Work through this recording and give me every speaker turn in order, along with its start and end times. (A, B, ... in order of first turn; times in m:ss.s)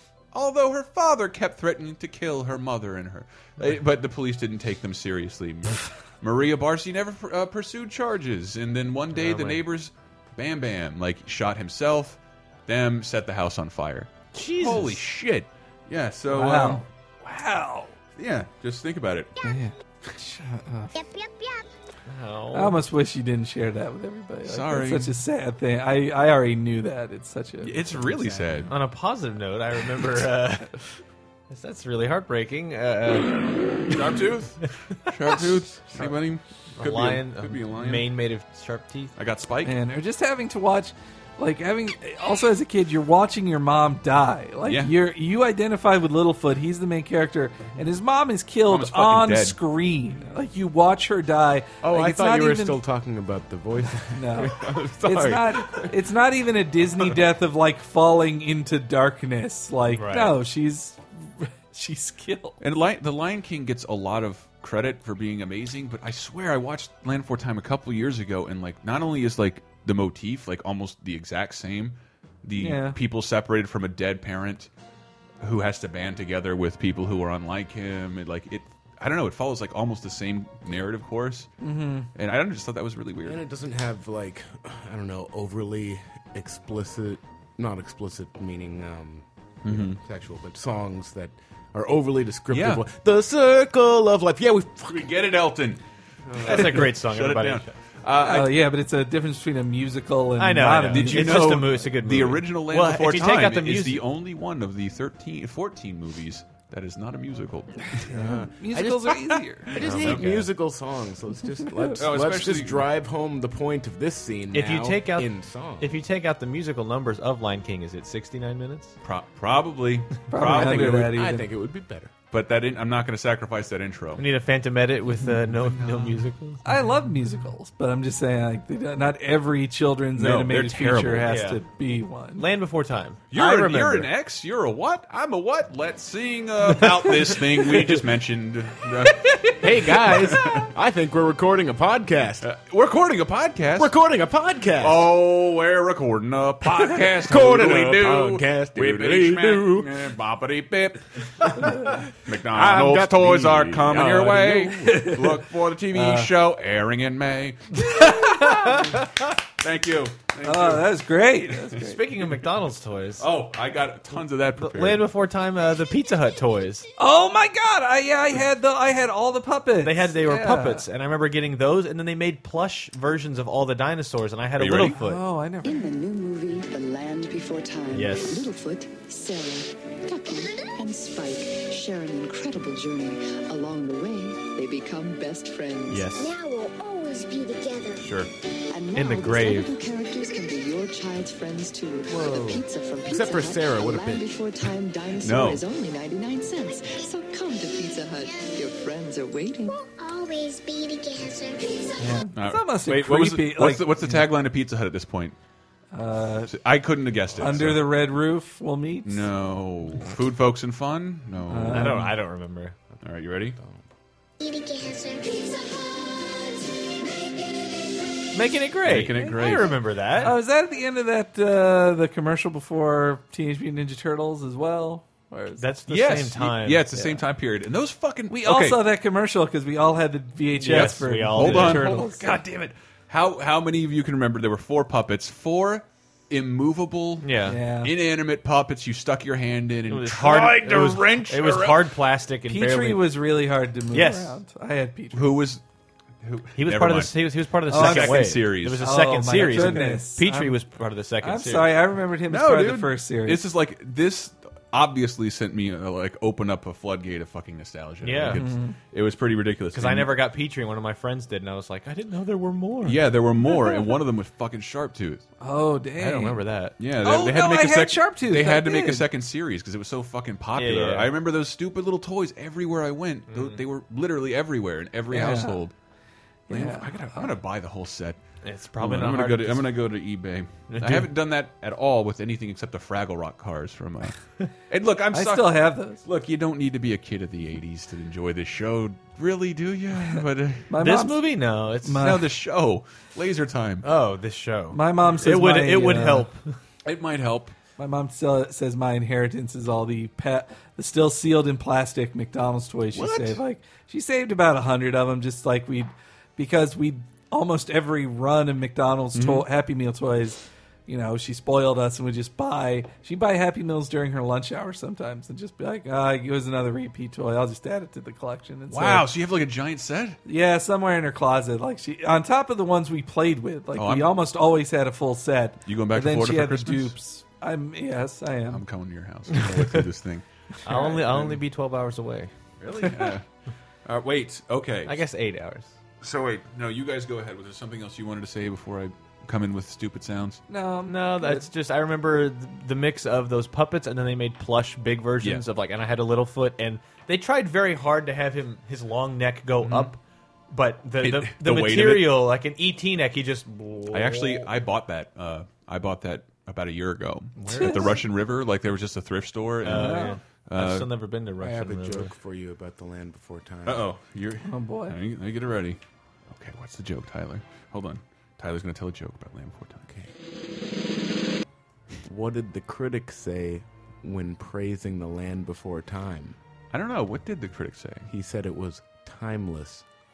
0:00.3-0:16.8 A
0:09.1-0:09.6 B
0:14.3-0:15.0 B
0:16.3-0:17.9 C
0:18.2-0:19.3 A
0:19.4-0:20.9 C
0:20.9-0:21.7 D
0:22.1-0:22.8 B
0:22.5-0:28.1 C
0:24.4-0:25.2 A
0:27.6-0:28.7 A
0:28.7-0:30.8 B
0:31.5-0:34.0 B
0:33.9-0:38.1 A
0:36.8-0:39.1 B
0:39.2-0:39.8 A
0:39.6-0:52.8 C
0:44.6-0:44.9 A
0:48.7-0:49.6 A
0:51.8-0:55.9 E
0:54.1-1:02.6 C
0:59.9-1:00.4 B
1:02.6-1:14.7 A
1:12.6-1:13.0 C
1:15.4-1:21.5 A
1:21.6-1:22.1 C
1:22.1-1:23.4 A
1:23.2-1:35.1 E
1:29.6-1:30.0 A
1:32.5-1:32.8 A
1:34.9-1:35.8 A
1:36.3-1:36.7 E
1:36.4-1:38.6 A
1:36.4-1:37.7 B
1:38.2-1:41.8 C
1:40.4-1:44.0 B
1:40.9-1:48.0 A
1:48.0-1:49.7 C
1:48.1-1:48.9 E
1:49.7-1:55.9 E
1:49.7-1:50.5 A
1:49.8-1:50.2 B
1:52.0-1:52.8 A
1:54.5-1:59.0 B
1:59.0-2:01.1 A
2:00.3-2:01.5 C
2:00.4-2:02.1 E
2:02.3-2:04.2 A
2:04.2-2:06.6 B
2:06.6-2:12.4 C
2:10.2-2:11.4 A
2:11.2-2:11.6 B
2:12.4-2:14.1 B
2:13.3-2:20.7 A
2:19.6-2:22.5 E
2:22.4-2:23.9 A
2:23.8-2:25.1 E
2:24.8-2:31.4 A
2:27.2-2:29.9 E
2:31.4-2:31.9 E
2:31.6-2:31.9 C
2:32.2-2:38.5 A
2:32.5-2:34.8 E
2:34.8-2:35.4 C
2:35.9-2:36.3 C
2:37.9-2:39.0 C
2:39.6-2:41.0 A
2:40.4-2:42.0 C
2:41.8-2:43.2 B
2:43.2-2:45.0 A
2:44.6-2:46.8 B
2:47.0-2:50.8 C
2:49.8-2:55.2 B
2:54.6-2:55.0 A
2:54.9-2:55.9 C
2:55.6-3:06.1 F
2:57.9-2:58.4 B
3:05.9-3:06.3 B
3:06.2-3:08.1 D
3:08.0-3:08.3 A
3:08.7-3:19.8 F
3:08.9-3:09.7 B
3:12.1-3:14.3 E
3:15.2-3:15.6 A
3:18.2-3:18.7 D
3:19.6-3:22.2 D
3:22.0-3:24.2 C
3:22.3-3:25.4 A
3:25.9-3:26.6 C
3:26.5-3:27.9 A
3:27.4-3:29.3 C
3:29.0-3:32.0 A
3:31.5-3:32.1 C
3:31.7-3:32.7 B
3:33.0-3:33.6 A
3:34.4-3:37.8 D
3:38.3-3:40.3 B
3:38.8-3:39.8 A
3:40.2-3:45.6 C
3:45.6-3:46.8 B
3:45.9-3:48.8 A
3:46.9-3:47.2 C
3:48.3-3:52.4 C
3:50.6-3:52.1 B
3:50.7-4:01.9 A
3:57.2-3:57.6 B
3:57.5-3:57.9 C
3:59.9-4:03.2 B
4:02.5-4:05.4 C
4:03.9-4:04.3 B
4:05.1-4:05.6 A
4:06.2-4:08.9 A
4:06.5-4:11.8 B
4:07.7-4:10.6 C
4:09.4-4:09.8 A
4:11.2-4:13.4 C
4:12.3-4:20.1 A
4:18.0-4:18.4 B
4:18.3-4:18.8 C
4:19.7-4:23.0 B
4:22.8-4:25.2 A
4:23.4-4:23.9 C
4:25.4-4:26.4 C
4:26.0-4:26.8 B
4:26.8-4:35.7 A
4:27.0-4:29.1 C
4:30.6-4:31.1 B
4:33.3-4:33.6 B
4:35.1-4:35.6 C
4:36.5-4:37.3 C
4:36.5-4:38.2 A
4:38.4-4:39.7 B
4:38.8-4:44.2 A
4:40.7-4:41.1 B
4:44.7-4:50.7 A
4:45.1-4:46.0 C
4:50.1-4:51.3 C
4:50.8-4:52.1 B
4:51.8-4:52.2 C
4:51.9-4:53.8 A
4:53.8-4:56.5 B
4:54.7-4:56.3 C
4:56.8-4:57.5 A
4:57.8-5:19.1 C
5:09.1-5:09.5 A
5:18.7-5:20.2 A
5:20.2-5:28.6 C
5:23.7-5:24.1 A
5:25.6-5:27.0 A
5:28.5-5:30.2 A
5:29.3-5:29.6 B
5:30.6-5:32.3 B
5:30.8-5:31.4 A
5:32.6-5:33.2 A
5:33.8-5:35.0 A
5:34.8-5:35.7 B
5:36.0-5:40.4 A
5:40.5-5:41.5 C
5:40.9-5:50.0 B
5:49.6-5:49.9 A
5:50.5-5:54.4 B
5:51.0-5:52.2 A
5:53.9-6:00.9 A
5:57.4-5:57.9 B
5:57.5-5:57.9 C
5:59.6-6:02.1 B
5:59.7-6:00.2 C
6:01.4-6:03.8 E
6:03.6-6:09.9 A
6:04.4-6:05.0 C
6:12.0-6:16.4 E
6:16.7-6:18.1 A
6:18.1-6:19.8 E